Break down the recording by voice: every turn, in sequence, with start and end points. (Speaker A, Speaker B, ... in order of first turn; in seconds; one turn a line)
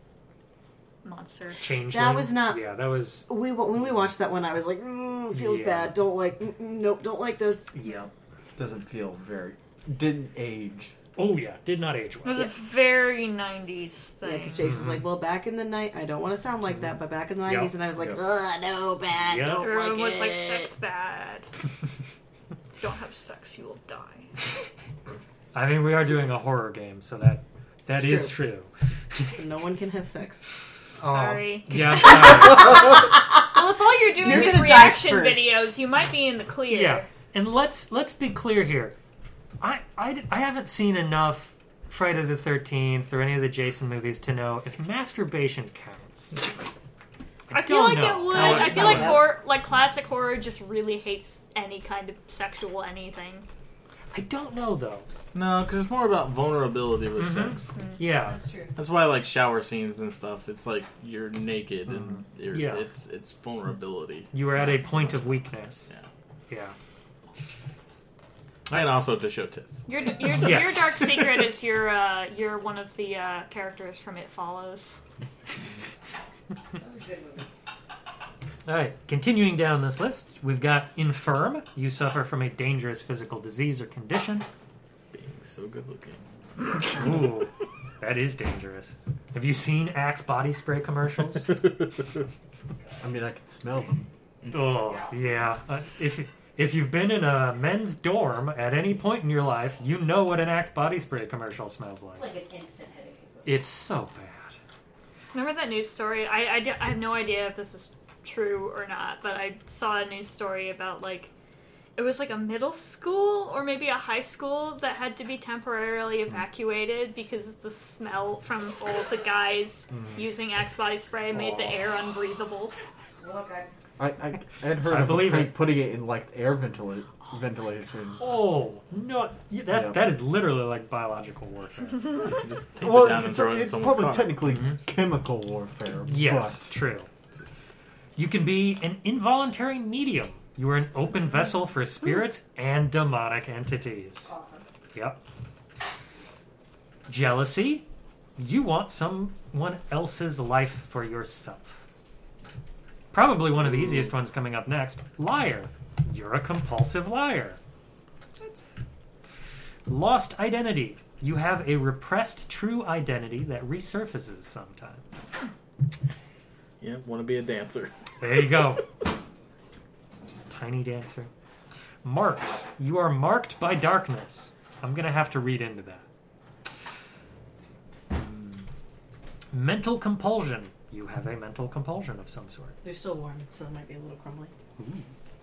Speaker A: 1.0-1.6
Speaker B: 1.6-3.3
Speaker C: 1.9-7.7
Speaker B: 5.3-6.0
Speaker B: 7.7-8.1
Speaker D: 8.6-10.9
Speaker B: 11.2-12.5
Speaker A: 12.2-14.7
Speaker C: 14.2-20.6
Speaker B: 14.6-15.0
Speaker B: 17.4-17.8
Speaker D: 17.9-18.2
Speaker B: 19.3-19.7
Speaker A: 19.6-21.5
Speaker A: 22.8-24.3
Speaker B: 25.5-29.4
Speaker C: 27.9-28.4
Speaker C: 29.3-30.4
Speaker B: 31.0-32.9
Speaker A: 31.0-37.1
Speaker C: 34.1-35.7
Speaker B: 36.7-39.0
Speaker B: 39.6-46.4
Speaker B: 47.5-49.2
Speaker A: 47.5-53.5
Speaker C: 48.3-49.3
Speaker B: 54.1-55.1
Speaker E: 55.3-57.7
Speaker B: 57.1-58.4
Speaker A: 57.7-58.0
Speaker C: 58.3-58.7
Speaker E: 58.8-65.3
Speaker B: 62.5-62.9
Speaker B: 64.3-65.9
Speaker B: 66.5-66.8
Speaker E: 68.7-70.1
Speaker A: 69.9-75.0
Speaker B: 70.4-71.1
Speaker C: 76.8-77.5
Speaker B: 78.7-84.5
Speaker E: 85.1-86.3
Speaker B: 86.8-91.6
Speaker D: 93.0-94.1
Speaker B: 94.5-102.3
Speaker C: 102.1-103.6
Speaker B: 103.5-104.6
Speaker A: 105.3-111.3
Speaker A: 112.0-122.8
Speaker D: 119.9-120.2
Speaker C: 123.2-123.7
Speaker D: 124.0-128.2
Speaker B: 124.8-125.6
Speaker B: 128.2-132.3
Speaker D: 129.7-130.1
Speaker E: 132.3-134.4
Speaker D: 132.8-136.7
Speaker B: 134.5-134.8
Speaker B: 136.0-137.1
Speaker B: 138.2-144.3
Speaker C: 144.2-144.7
Speaker B: 144.9-145.2
Speaker B: 147.1-147.8
Speaker B: 148.4-151.8
Speaker B: 153.1-157.6
Speaker B: 159.9-165.2
Speaker E: 166.8-167.9
Speaker B: 168.2-168.9
Speaker B: 170.5-171.3
Speaker B: 172.0-176.0
Speaker B: 178.1-178.7
Speaker B: 179.5-182.8
Speaker C: 182.8-184.5
Speaker B: 184.8-185.1